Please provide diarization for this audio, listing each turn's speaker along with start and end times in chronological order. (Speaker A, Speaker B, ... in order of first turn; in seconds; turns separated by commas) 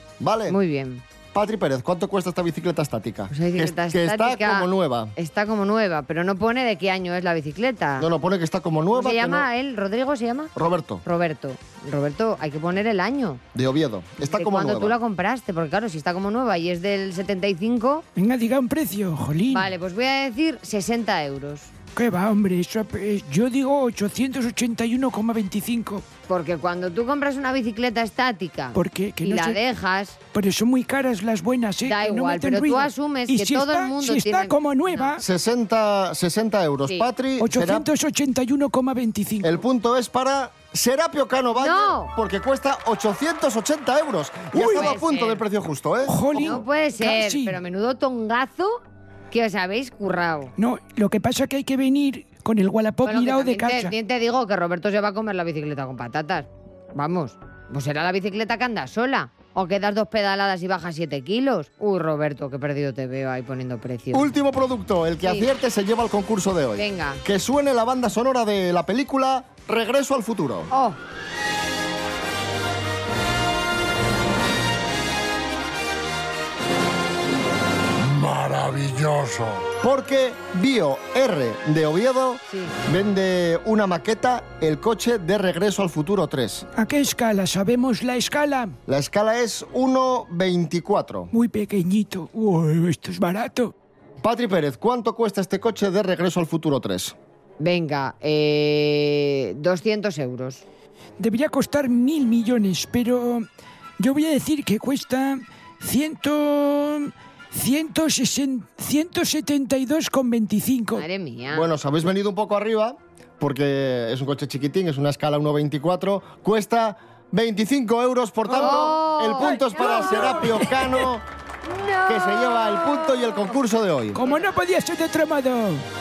Speaker A: 0.2-0.6, Speaker B: 0.5-1.0, Speaker A: 1.3-5.1, Speaker B: 3.3-8.1, Speaker A: 8.0-9.5, Speaker B: 8.9-10.5, Speaker A: 10.5-11.0, Speaker B: 11.0-13.4, Speaker A: 13.5-15.0, Speaker B: 14.2-18.0, Speaker C: 18.1-19.7, Speaker B: 19.5-21.7, Speaker C: 21.9-26.0, Speaker B: 26.3-30.2, Speaker C: 28.7-29.6, Speaker C: 30.3-35.2, Speaker B: 31.9-35.1, Speaker A: 35.2-37.9, Speaker C: 37.4-39.6, Speaker A: 39.4-46.6, Speaker B: 41.6-42.1, Speaker B: 44.5-45.4, Speaker C: 44.6-44.9, Speaker C: 46.0-47.6, Speaker B: 46.3-50.5, Speaker C: 50.6-53.9, Speaker B: 53.0-64.3, Speaker A: 64.1-70.7, Speaker B: 65.2-65.5, Speaker B: 66.8-67.2, Speaker B: 70.7-71.0, Speaker A: 78.1-86.6, Speaker B: 82.5-82.7, Speaker C: 86.8-88.8, Speaker A: 88.9-91.3, Speaker C: 91.3-93.7, Speaker A: 94.2-97.1, Speaker B: 97.6-100.6, Speaker C: 101.2-103.5, Speaker C: 104.0-111.0, Speaker B: 111.0-111.7, Speaker A: 111.5-121.2, Speaker C: 118.5-119.0, Speaker B: 118.5-120.5, Speaker C: 119.6-120.8, Speaker B: 121.6-123.6, Speaker A: 122.1-124.2, Speaker C: 124.1-125.8, Speaker B: 124.2-124.5